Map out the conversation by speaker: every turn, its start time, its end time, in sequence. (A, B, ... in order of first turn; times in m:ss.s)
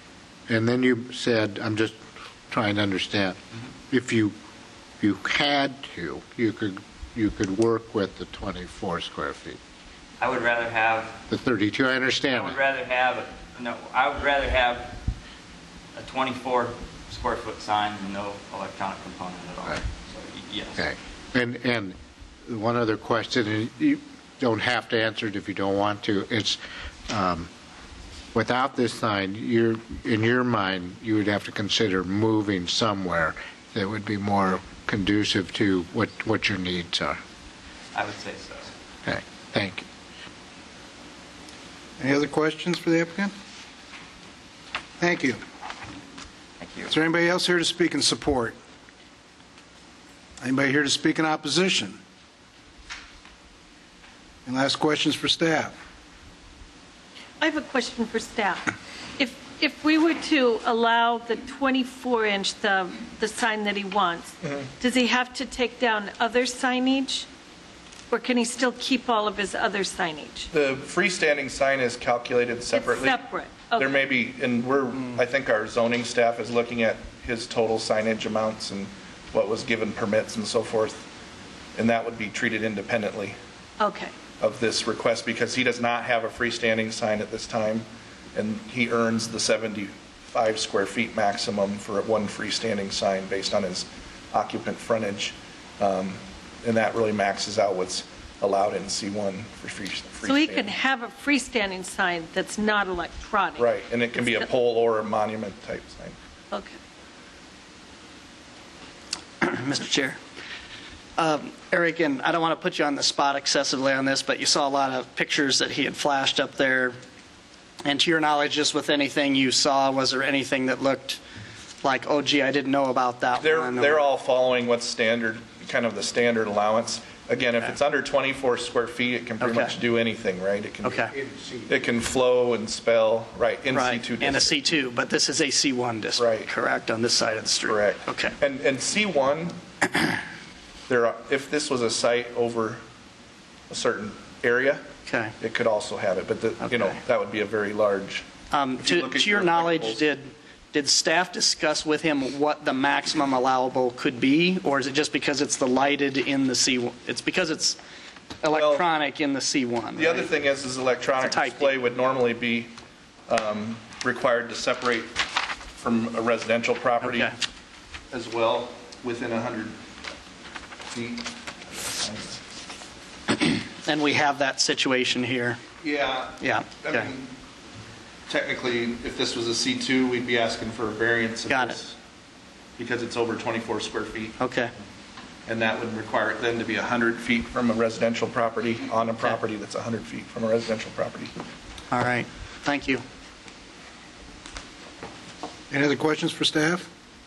0:00.5-0:04.3 A
0:05.0-0:09.6 A
0:10.2-0:11.2 B
0:11.3-0:12.6 A
0:12.3-0:15.0 B
0:16.0-0:20.8 B
0:20.8-0:27.5 A
0:28.3-0:37.2 A
0:37.9-0:38.7 B
0:39.0-0:39.9 A
0:42.0-0:43.3 C
0:45.0-0:45.4 C
0:46.6-0:46.9 B
0:46.9-0:48.6 C
0:50.4-0:52.0 C
0:54.4-0:55.7 C
0:57.4-1:07.3 D
1:08.1-1:10.5 D
1:10.5-1:13.2 E
1:12.7-1:14.0 D
1:13.8-1:21.1 E
1:21.8-1:23.4 E
1:23.8-1:24.1 D
1:24.4-1:40.7 E
1:40.2-1:44.5 D
1:43.6-1:46.1 E
1:46.5-1:46.8 D
1:49.4-1:50.2 F
1:51.2-1:56.9 F
1:57.8-2:01.2 F
2:01.8-2:04.0 F
2:03.4-2:14.6 E
2:09.4-2:09.7 F
2:10.8-2:11.1 F
2:11.2-2:11.7 A
2:13.7-2:18.3 F
2:16.2-2:16.5 E
2:17.6-2:19.6 E
2:20.9-2:22.8 E
2:23.7-2:24.8 E
2:25.1-2:25.3 F
2:25.4-2:28.2 E
2:26.6-2:27.0 F
2:28.5-2:37.8 F
2:28.8-2:30.1 E
2:38.4-2:40.3 F
2:38.5-2:38.8 E
2:39.9-2:42.7 E
2:41.2-2:41.7 F
2:43.3-2:45.2 E
2:45.8-2:47.3 E
2:47.0-2:47.3 F
2:48.1-2:49.8 E
2:50.9-2:52.4 E
2:53.8-2:55.6 F
2:55.8-2:57.3 E
2:56.4-2:57.1 F
2:58.3-3:02.0 E
3:01.5-3:01.8 F
3:02.8-3:04.4 E
3:04.4-3:04.7 F
3:05.5-3:11.3 E
3:11.9-3:13.0 F
3:15.7-3:16.9 C